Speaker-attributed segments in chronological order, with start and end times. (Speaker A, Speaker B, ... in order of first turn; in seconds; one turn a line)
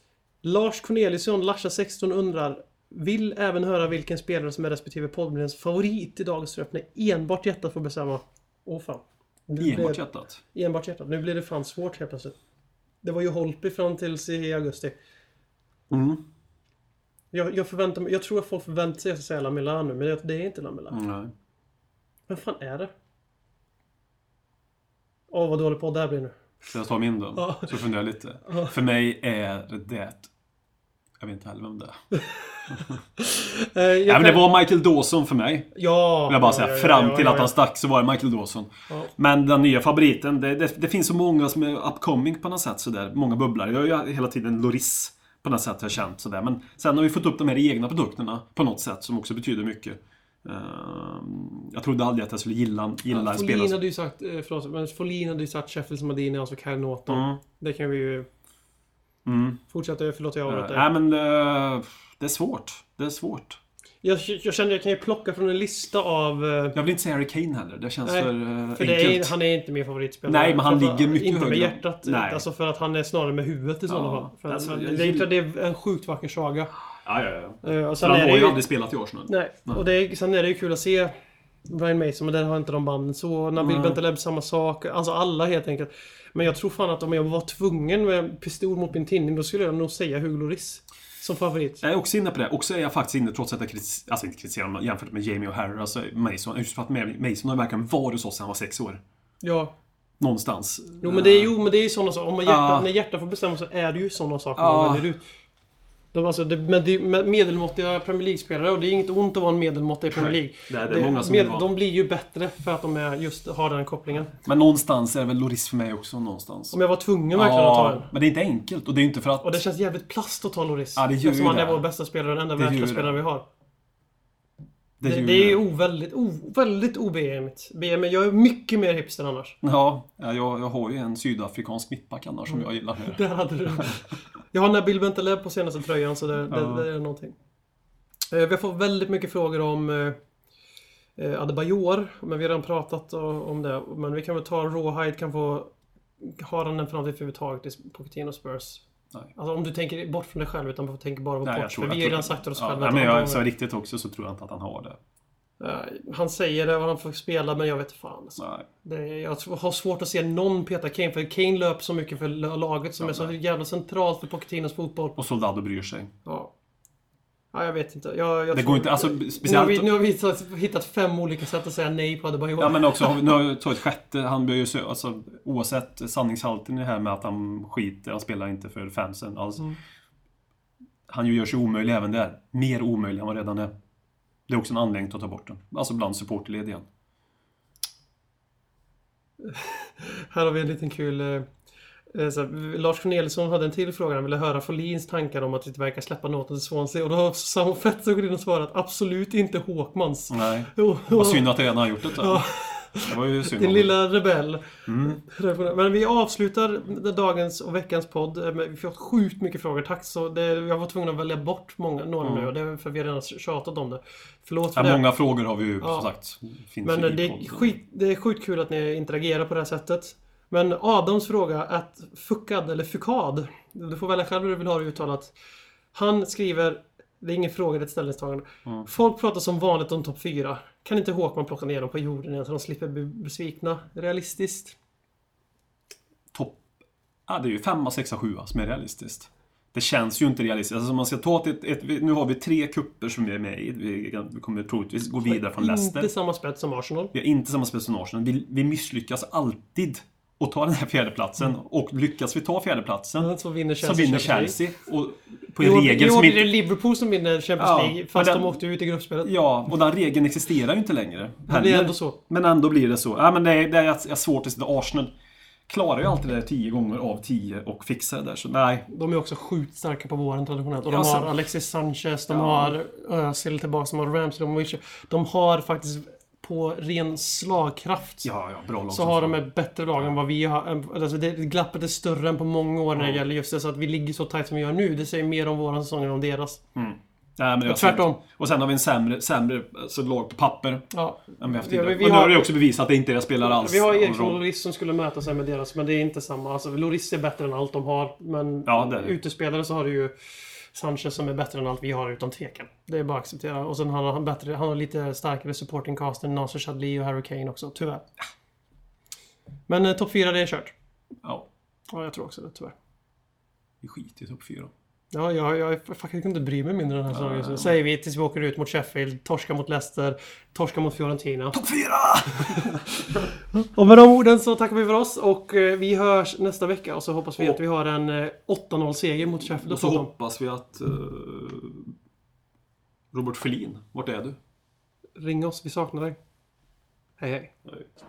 Speaker A: 0.4-12.3
Speaker B: 9.6-10.4
Speaker A: 13.0-14.9
Speaker B: 15.9-16.2
Speaker A: 17.3-21.0
Speaker B: 20.9-21.3
Speaker A: 22.3-22.9
Speaker A: 25.3-26.4
Speaker B: 26.6-30.3
Speaker A: 27.4-27.7
Speaker B: 31.2-32.0
Speaker A: 33.2-34.5
Speaker B: 34.0-35.7
Speaker A: 35.7-37.5
Speaker B: 36.3-53.8
Speaker A: 53.1-58.3
Speaker B: 57.1-57.4
Speaker B: 59.2-59.6
Speaker A: 59.7-60.8
Speaker B: 60.5-63.6
Speaker A: 64.0-66.8
Speaker B: 66.7-69.3
Speaker A: 68.0-76.7
Speaker B: 70.2-72.4
Speaker B: 73.9-75.3
Speaker B: 77.0-79.8
Speaker A: 77.6-78.6
Speaker A: 79.2-81.1
Speaker A: 81.7-91.8
Speaker B: 83.5-84.0
Speaker B: 91.8-99.0
Speaker A: 99.4-99.7
Speaker B: 100.2-101.5
Speaker A: 101.0-105.2
Speaker B: 102.4-102.9
Speaker B: 104.5-105.1
Speaker A: 106.1-114.3
Speaker B: 110.1-111.7
Speaker B: 114.4-116.8
Speaker A: 116.7-118.1
Speaker B: 117.3-119.6
Speaker A: 119.4-123.4
Speaker B: 121.0-121.8
Speaker B: 122.5-123.2
Speaker B: 125.0-125.6
Speaker A: 125.0-129.6
Speaker B: 129.6-134.0
Speaker A: 132.5-137.3
Speaker B: 136.5-136.9
Speaker A: 138.3-140.2
Speaker A: 141.2-148.8
Speaker A: 149.3-153.4
Speaker B: 151.4-155.0
Speaker A: 155.6-165.2
Speaker B: 158.4-158.7
Speaker B: 163.0-163.3
Speaker B: 165.2-166.1
Speaker A: 166.2-166.5
Speaker A: 167.5-173.2
Speaker B: 168.5-169.9
Speaker B: 172.6-179.7
Speaker B: 181.1-183.7
Speaker B: 184.5-186.9
Speaker A: 189.4-191.5
Speaker A: 192.1-215.1
Speaker B: 200.3-202.4
Speaker B: 203.0-203.9
Speaker B: 204.8-205.2
Speaker B: 212.2-212.5
Speaker B: 214.8-217.7
Speaker A: 215.8-216.1
Speaker A: 216.8-225.3
Speaker A: 225.9-234.7
Speaker B: 236.3-236.6
Speaker B: 237.3-246.1
Speaker A: 245.2-247.1
Speaker B: 247.1-256.5
Speaker A: 253.2-254.6
Speaker A: 255.6-259.3
Speaker B: 257.6-258.6
Speaker B: 259.2-265.1
Speaker A: 261.5-262.2
Speaker B: 265.7-268.9
Speaker A: 268.9-278.3
Speaker B: 270.9-271.3
Speaker B: 272.3-272.8
Speaker B: 278.2-279.4
Speaker A: 278.9-286.6
Speaker B: 282.9-283.2
Speaker B: 286.7-290.9
Speaker A: 287.6-288.2
Speaker A: 290.9-292.5
Speaker B: 291.4-294.4
Speaker A: 293.4-300.1
Speaker B: 298.6-299.1
Speaker A: 300.7-308.0
Speaker A: 309.7-310.7
Speaker A: 311.9-312.7
Speaker B: 313.8-314.7
Speaker A: 315.1-321.6
Speaker B: 317.1-317.7
Speaker B: 321.5-322.9
Speaker A: 322.4-322.8
Speaker A: 323.5-330.1
Speaker B: 329.3-331.9
Speaker B: 333.1-334.4
Speaker A: 335.2-336.2
Speaker A: 337.2-337.5